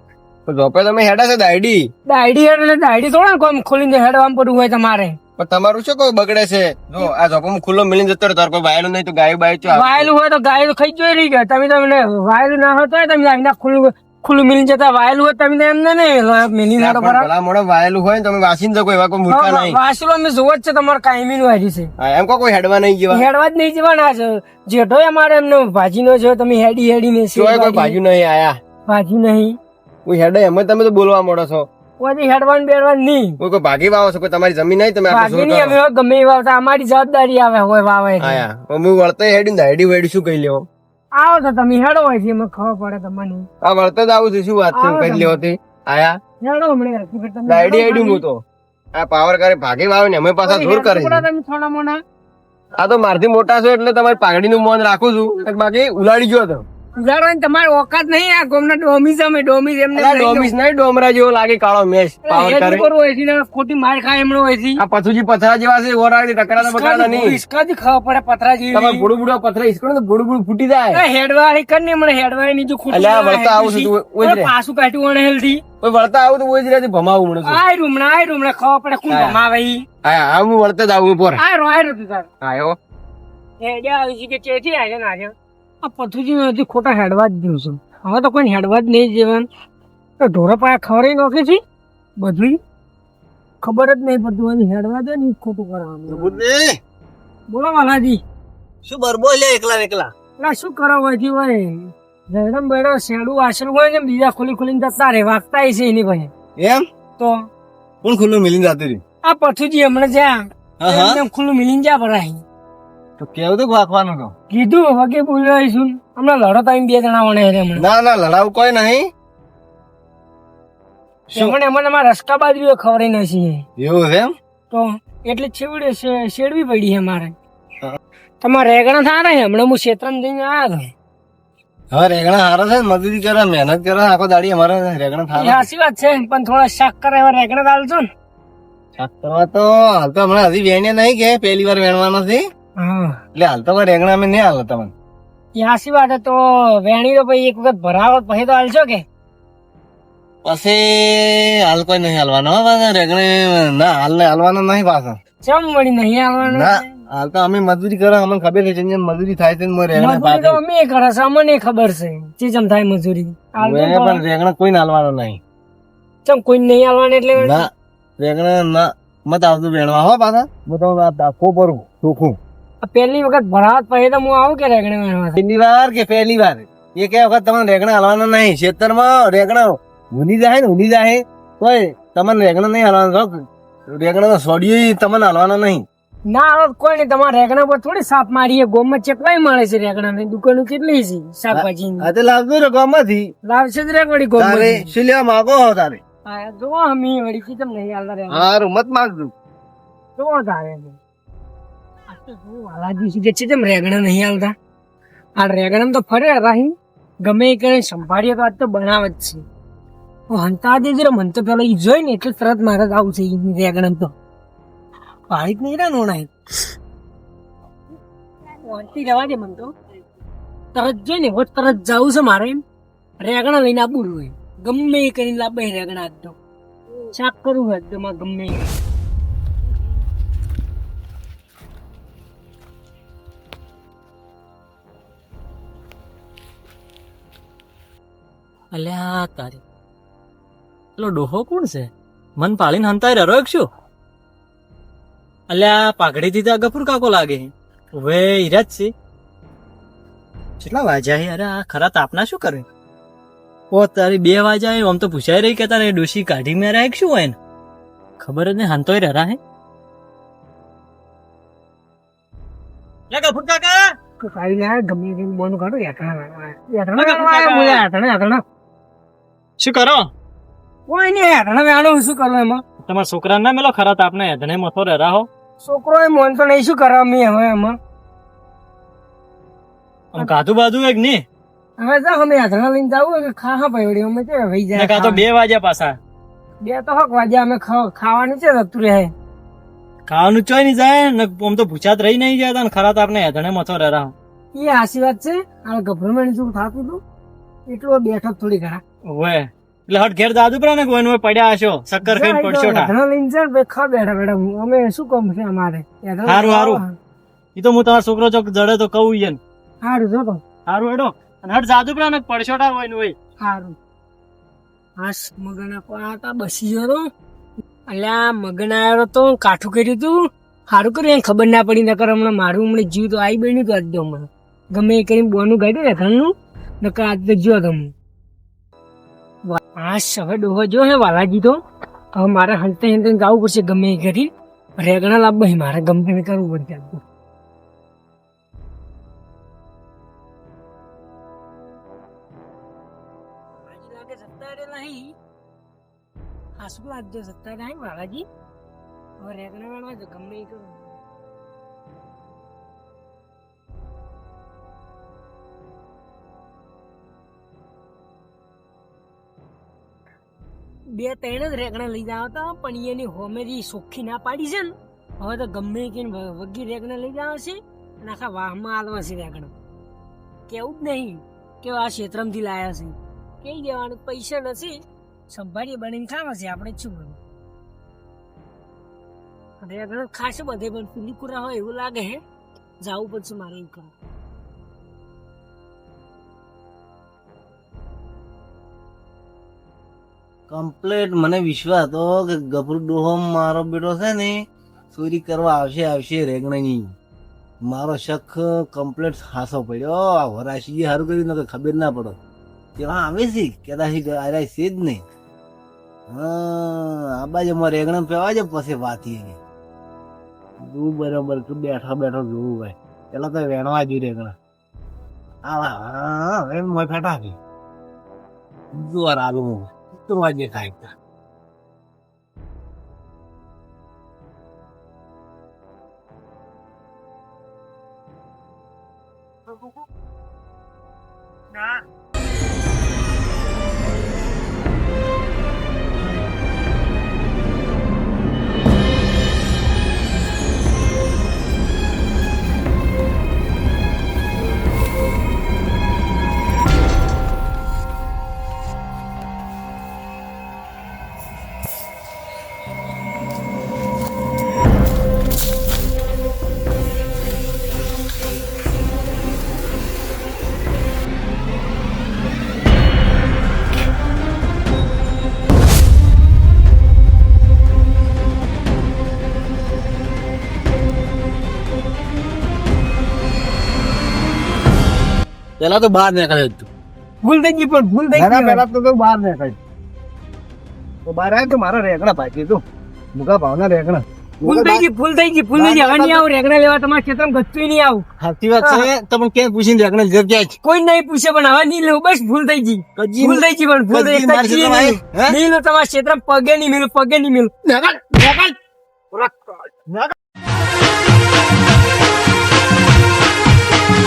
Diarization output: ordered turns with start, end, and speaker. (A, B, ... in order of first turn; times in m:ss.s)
0:00.4-0:01.9 A
0:02.0-0:05.2 B
0:05.4-0:10.1 A
0:09.7-0:17.3 B
0:16.8-0:19.8 A
0:19.3-0:21.9 B
0:22.0-0:23.2 A
0:23.1-0:28.0 B
0:27.3-0:28.6 A
0:28.9-0:29.5 B
0:30.0-0:31.7 A
0:32.0-0:33.4 B
0:33.4-0:35.7 A
0:35.1-0:38.4 B
0:38.2-0:40.6 A
0:41.2-0:43.5 B
0:43.6-0:46.2 A
0:44.7-0:45.4 B
0:46.4-0:48.2 B
0:47.5-0:48.4 A
0:48.9-0:51.3 A
0:50.4-0:52.0 B
0:52.8-0:56.6 A
0:57.0-1:00.5 B
0:59.9-1:02.9 A
1:02.2-1:04.8 B
1:04.8-1:07.4 A
1:06.6-1:09.1 B
1:08.7-1:11.0 A
1:10.9-1:15.6 B
1:12.9-1:14.5 A
1:15.8-1:17.6 A
1:17.4-1:19.8 B
1:19.1-1:19.4 A
1:20.0-1:21.4 A
1:21.4-1:22.3 B
1:22.4-1:22.8 A
1:23.6-1:29.4 B
1:30.2-1:31.6 B
1:32.2-1:32.6 B
1:33.6-1:36.4 B
1:36.1-1:36.8 C
1:37.5-1:38.2 B
1:38.8-1:40.1 C
1:40.4-1:46.3 B
1:46.6-1:46.8 C
1:47.2-1:47.4 B
1:48.0-1:49.0 C
1:49.2-1:52.4 B
1:50.8-1:51.2 C
1:53.2-1:54.3 C
1:54.5-1:57.8 B
1:57.8-1:59.1 C
2:01.3-2:03.6 B
2:03.8-2:04.3 C
2:04.7-2:07.3 B
2:08.4-2:10.9 B
2:11.9-2:15.7 C
2:15.3-2:18.1 B
2:19.0-2:22.4 C
2:22.8-2:23.2 B
2:23.3-2:24.9 C
2:25.6-2:29.0 B
2:30.4-2:35.2 C
2:35.4-2:36.8 B
2:36.4-2:40.6 C
2:39.9-2:44.2 B
2:43.6-2:45.4 C
2:46.2-2:47.7 B
2:47.4-2:52.4 C
2:52.8-2:55.4 B
2:55.4-3:05.8 C
3:06.3-3:12.1 B
3:11.5-3:13.3 C
3:13.4-3:14.9 B
3:14.4-3:16.0 C
3:16.2-3:18.5 B
3:18.3-3:19.3 C
3:20.2-3:21.0 B
3:22.1-3:24.5 B
3:25.4-3:29.4 B
3:30.3-3:34.1 B
3:35.3-3:36.3 B
3:38.5-3:39.7 B
3:40.7-3:42.6 B
3:43.2-3:46.4 B
3:47.1-3:48.8 B
3:58.7-3:59.6 D
4:01.0-4:03.7 D
4:05.5-4:08.9 D
4:10.6-4:12.6 D
4:13.7-4:17.4 D
4:18.2-4:19.4 D
4:23.1-4:24.0 D
4:24.2-4:28.4 B
4:27.0-4:27.8 D
4:29.6-4:30.1 D
4:30.9-4:32.6 B
4:32.8-4:35.3 D
4:35.6-4:37.8 B
4:40.1-4:41.2 D
4:41.8-4:45.2 B
4:44.7-4:46.0 D
4:46.6-4:49.1 B
4:50.1-4:54.1 D
4:54.5-4:57.0 B
4:57.7-4:58.8 B
4:59.0-5:02.9 D
5:02.0-5:06.9 B
5:06.2-5:06.8 D
5:07.5-5:09.4 D
5:09.8-5:10.4 B
5:10.6-5:13.2 D
5:13.4-5:13.8 B
5:15.0-5:17.0 B
5:17.9-5:27.9 B
5:29.4-5:31.6 B
5:32.1-5:37.0 B
5:43.6-5:45.2 B
5:46.6-5:48.3 B
5:49.2-5:51.0 B
6:00.9-6:09.5 B
6:10.5-6:14.8 B
6:15.3-6:17.2 B
6:19.6-6:22.2 B
6:22.8-6:23.9 B
6:30.5-6:36.9 C
6:37.6-6:42.2 C
6:42.8-6:45.0 C
6:46.1-6:49.4 C
6:50.6-6:54.4 C
6:55.4-6:57.4 C
6:58.7-7:00.9 C
7:55.6-7:56.7 C
7:57.2-7:58.6 B
7:58.1-7:59.6 C
8:01.0-8:02.6 C
8:03.1-8:04.8 C
8:04.4-8:08.0 B
8:05.5-8:06.2 C
8:08.2-8:10.6 C
8:08.6-8:08.9 B
8:10.6-8:17.5 B
8:13.0-8:15.4 C
8:17.6-8:18.5 C
8:19.1-8:20.1 C